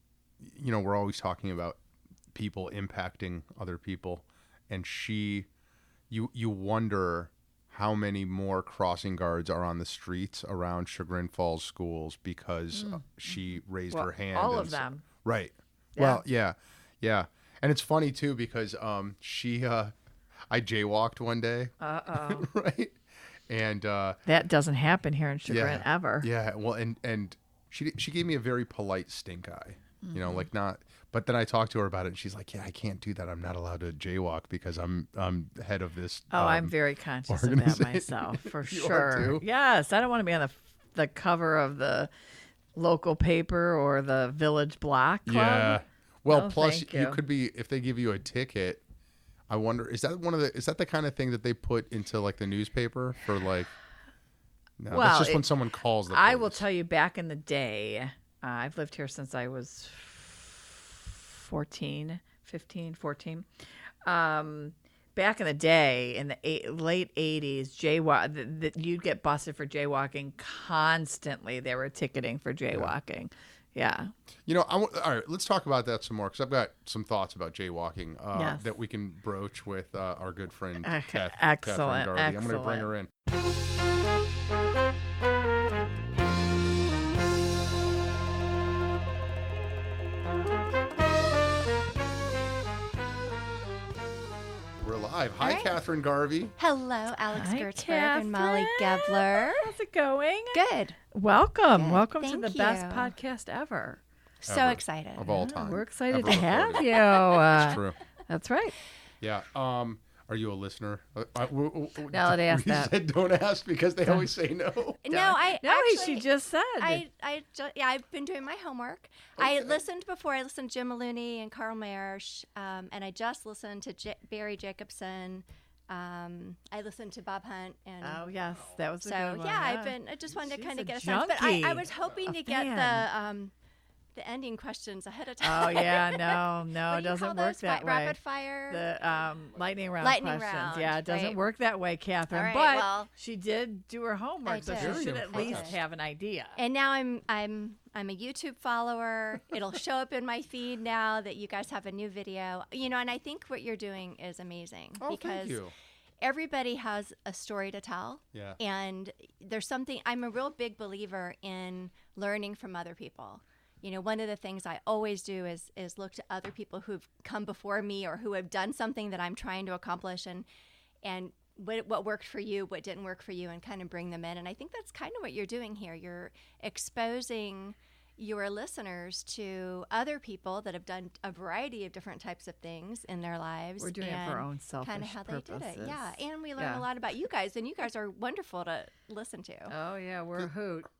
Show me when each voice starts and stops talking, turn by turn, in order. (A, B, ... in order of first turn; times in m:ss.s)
0:00.4-0:01.8 A
0:02.3-0:05.5 A
0:06.1-0:19.9 A
0:13.9-0:15.0 B
0:20.5-0:23.0 A
0:21.8-0:22.4 B
0:23.5-0:24.2 A
0:24.3-0:26.2 B
0:25.4-0:36.7 A
0:30.0-0:30.4 B
0:36.3-0:42.1 B
0:37.3-0:39.4 A
0:42.7-0:45.8 B
0:45.3-0:48.8 A
0:46.3-0:47.2 B
0:49.5-0:53.7 A
0:54.8-0:56.6 A
0:54.9-0:55.4 B
0:56.1-1:03.4 B
1:04.0-1:14.1 B
1:12.7-1:12.9 A
1:14.4-1:23.1 A
1:18.3-1:18.6 B
1:20.8-1:22.9 B
1:34.8-1:36.5 A
1:35.4-1:35.7 C
1:36.6-1:39.7 C
1:37.3-1:40.6 B
1:40.5-1:41.0 C
1:41.1-1:44.0 B
1:41.7-1:43.1 C
1:44.4-1:45.2 C
1:44.4-1:48.0 A
1:45.3-1:48.8 B
1:49.2-1:55.4 A
1:52.1-1:52.9 B
1:55.0-1:56.3 C
1:55.6-1:57.0 B
1:56.8-2:08.2 C
1:59.4-1:59.8 A
2:08.0-2:10.0 B
2:09.0-2:13.5 C
2:10.5-2:13.0 B
2:14.2-2:18.9 C
2:15.4-2:18.2 B
2:18.7-2:26.6 B
2:20.0-2:21.4 C
2:22.3-2:23.1 C
2:24.4-2:25.8 C
2:24.6-2:25.8 A
2:26.6-2:35.7 C
2:35.0-2:35.7 A
2:36.2-2:50.5 C
2:38.3-2:38.6 A
2:51.0-3:09.8 C
3:03.8-3:06.8 B
3:09.7-3:10.9 B